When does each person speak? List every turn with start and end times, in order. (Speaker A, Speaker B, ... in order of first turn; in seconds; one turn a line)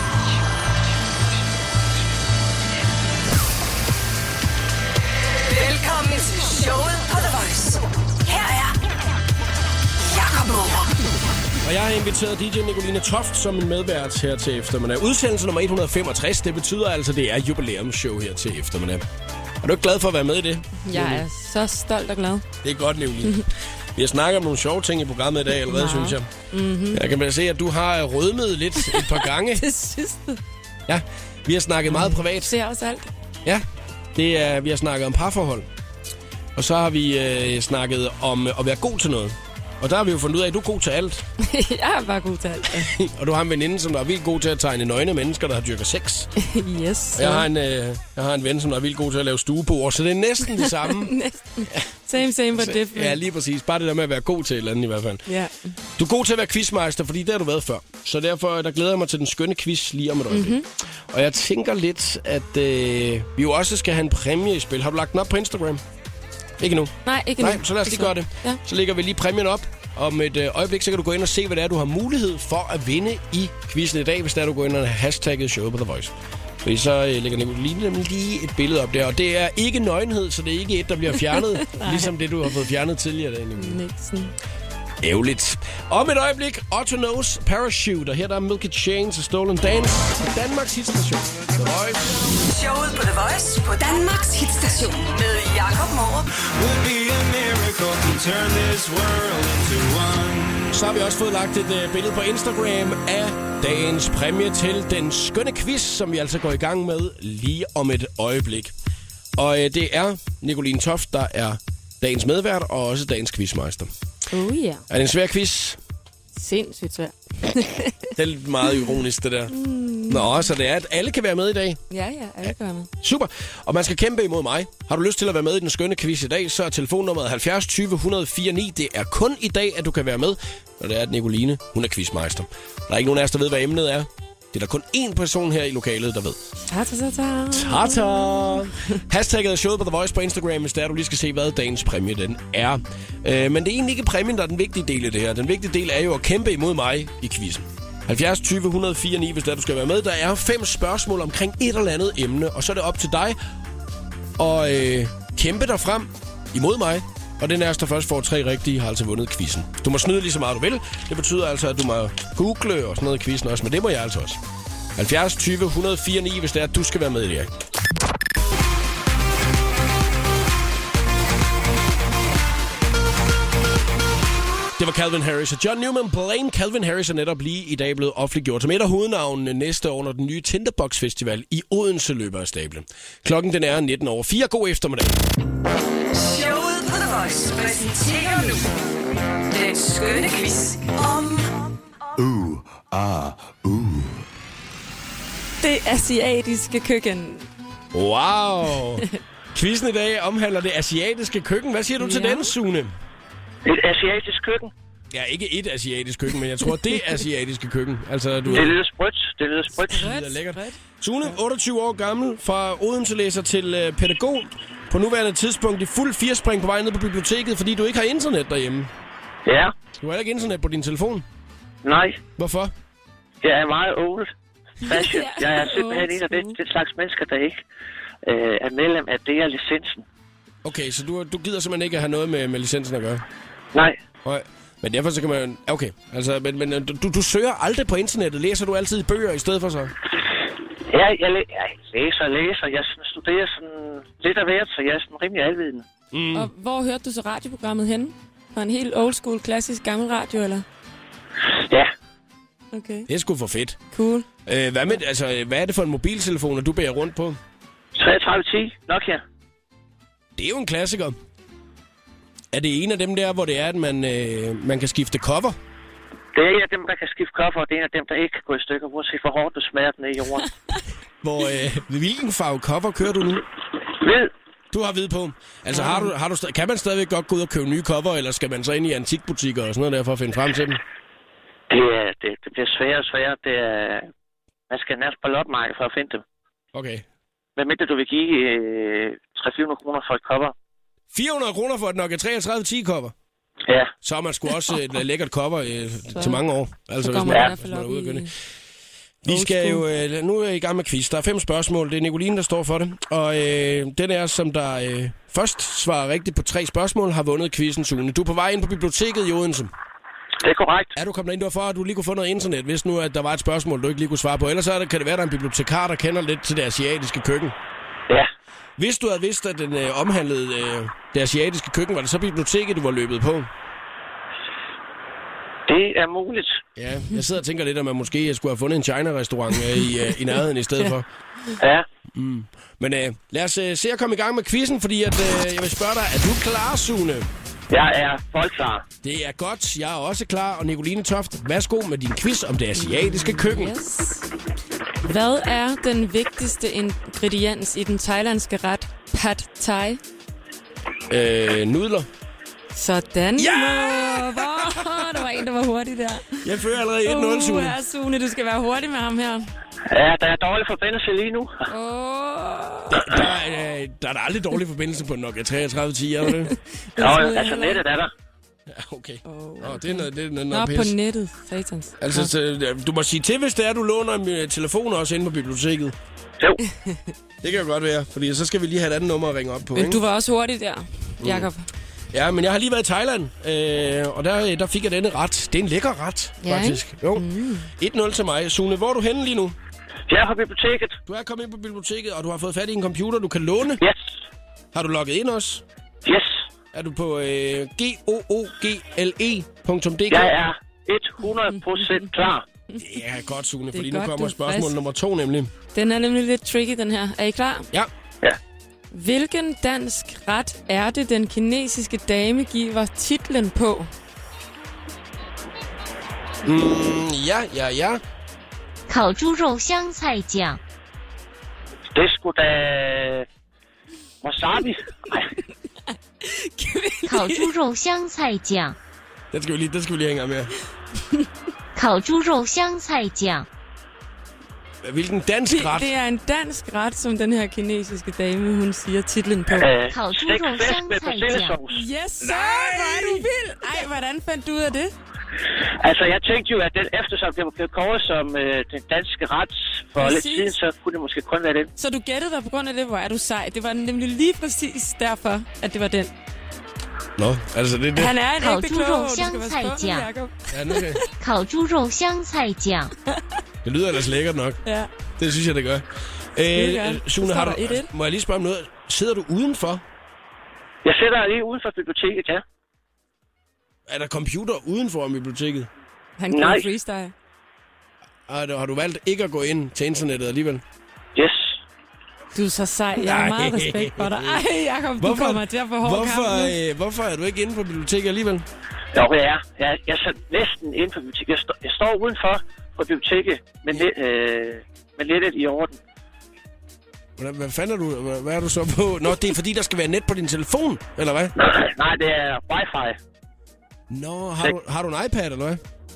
Speaker A: 5.3-8.8
Speaker A: 10.0-11.0
Speaker B: 11.6-19.0
Speaker B: 19.6-21.2
Speaker C: 20.8-22.5
Speaker B: 22.6-26.3
Speaker C: 25.6-27.0
Speaker B: 26.9-29.6
Speaker C: 28.8-30.4
Speaker B: 30.9-32.5
Speaker C: 31.9-33.1
Speaker B: 33.4-35.7
Speaker B: 36.5-41.2
Speaker C: 41.4-42.9
Speaker B: 42.7-46.3
Speaker C: 46.4-47.5
Speaker B: 47.1-51.1
Speaker C: 50.5-53.2
Speaker B: 52.5-55.2
Speaker C: 55.3-55.7
Speaker B: 56.0-65.8
Speaker C: 60.3-60.6
Speaker B: 66.6-83.8
Speaker C: 67.0-68.6
Speaker C: 81.3-82.1
Speaker C: 83.5-84.3
Speaker B: 85.0-92.1
Speaker A: 92.2-96.3
Speaker D: 96.3-100.6
Speaker B: 100.7-108.7
Speaker B: 109.4-113.9
Speaker C: 114.3-114.8
Speaker B: 114.9-115.8
Speaker C: 116.3-118.1
Speaker B: 118.1-119.5
Speaker C: 119.5-120.5
Speaker B: 120.1-121.8
Speaker C: 121.9-122.9
Speaker B: 123.0-136.4
Speaker C: 136.7-139.0
Speaker B: 137.5-153.4
Speaker B: 154.4-164.4
Speaker B: 164.9-167.5
Speaker B: 174.8-185.2
Speaker A: 186.1-188.7
Speaker A: 189.4-191.8
Speaker D: 192.2-194.0
Speaker C: 195.6-197.5
Speaker B: 197.9-202.9
Speaker C: 202.0-202.5
Speaker E: 203.6-204.7
Speaker B: 205.1-208.8
Speaker C: 208.4-208.7
Speaker E: 208.5-210.1
Speaker C: 209.8-210.8
Speaker B: 209.9-218.9
Speaker E: 219.4-219.7
Speaker B: 219.9-221.2
Speaker E: 221.8-222.2
Speaker B: 222.4-222.7
Speaker E: 223.4-227.6
Speaker C: 224.8-226.6
Speaker E: 228.2-230.0
Speaker B: 230.6-233.2
Speaker E: 233.7-234.0
Speaker B: 234.2-239.9
Speaker E: 240.9-245.8
Speaker B: 246.1-246.5
Speaker C: 246.3-250.6
Speaker E: 251.4-251.9
Speaker C: 252.7-253.1
Speaker B: 253.1-253.8
Speaker C: 253.9-254.2
Speaker B: 254.4-257.4
Speaker E: 257.9-259.2
Speaker B: 260.4-261.1
Speaker B: 262.5-265.6
Speaker E: 266.3-270.5
Speaker B: 271.2-273.4
Speaker E: 273.9-274.3
Speaker B: 274.7-280.8
Speaker C: 275.7-276.1
Speaker E: 281.7-284.1
Speaker E: 284.7-286.2
Speaker B: 286.7-287.0
Speaker E: 287.6-290.5
Speaker B: 291.1-293.1
Speaker E: 293.7-293.9
Speaker B: 294.0-298.3
Speaker C: 296.1-296.4
Speaker C: 297.0-298.3
Speaker E: 297.3-297.5
Speaker B: 299.2-309.7
Speaker C: 299.3-299.8
Speaker E: 310.4-310.9
Speaker B: 310.9-317.6
Speaker B: 318.8-323.5
Speaker E: 325.7-326.6
Speaker B: 326.8-331.1
Speaker E: 331.6-331.9
Speaker B: 332.1-337.3
Speaker E: 337.7-338.9
Speaker B: 339.0-343.7
Speaker C: 342.8-344.3
Speaker C: 345.0-350.0
Speaker B: 351.1-352.1
Speaker C: 352.7-356.4
Speaker B: 353.4-355.0
Speaker B: 356.4-357.8
Speaker C: 357.0-359.5
Speaker E: 359.9-361.5
Speaker C: 361.7-363.1
Speaker B: 362.9-366.5
Speaker C: 366.2-367.8
Speaker E: 367.0-368.1
Speaker B: 368.7-370.9
Speaker C: 369.2-372.3
Speaker B: 372.0-375.9
Speaker B: 377.4-380.0
Speaker C: 379.7-381.7
Speaker B: 381.2-381.5
Speaker B: 382.1-389.6
Speaker C: 386.4-387.7
Speaker E: 390.1-391.0
Speaker B: 391.1-393.8
Speaker E: 393.8-394.1
Speaker B: 394.7-395.6
Speaker E: 396.0-396.4
Speaker B: 396.7-400.3
Speaker E: 400.1-402.4
Speaker C: 401.5-402.1
Speaker B: 402.8-405.5
Speaker C: 403.7-404.7
Speaker C: 405.7-407.7
Speaker C: 408.9-413.9
Speaker B: 416.4-418.0
Speaker F: 418.9-420.6
Speaker E: 421.9-423.2
Speaker E: 424.2-425.3
Speaker C: 426.2-427.5
Speaker F: 427.1-428.8
Speaker B: 429.3-430.5
Speaker F: 431.8-433.5
Speaker B: 434.8-435.9
Speaker C: 435.5-439.7
Speaker E: 439.5-441.8
Speaker F: 439.9-441.6
Speaker C: 441.7-444.9
Speaker B: 442.2-443.3
Speaker E: 445.8-451.7
Speaker C: 450.0-450.5
Speaker C: 451.8-456.1
Speaker B: 457.2-458.2
Speaker C: 457.9-461.0
Speaker F: 458.3-460.1
Speaker B: 460.5-461.0
Speaker F: 461.2-462.9
Speaker B: 463.6-464.6
Speaker B: 465.2-469.8
Speaker C: 466.5-467.9
Speaker E: 470.8-472.4
Speaker B: 473.9-475.7
Speaker C: 476.2-477.1
Speaker E: 476.3-476.6
Speaker B: 478.3-480.6
Speaker E: 481.1-481.6
Speaker C: 482.3-486.5
Speaker B: 483.0-484.4
Speaker B: 485.0-488.4
Speaker E: 488.9-495.8
Speaker B: 497.2-501.3
Speaker E: 501.4-503.0
Speaker B: 503.9-505.6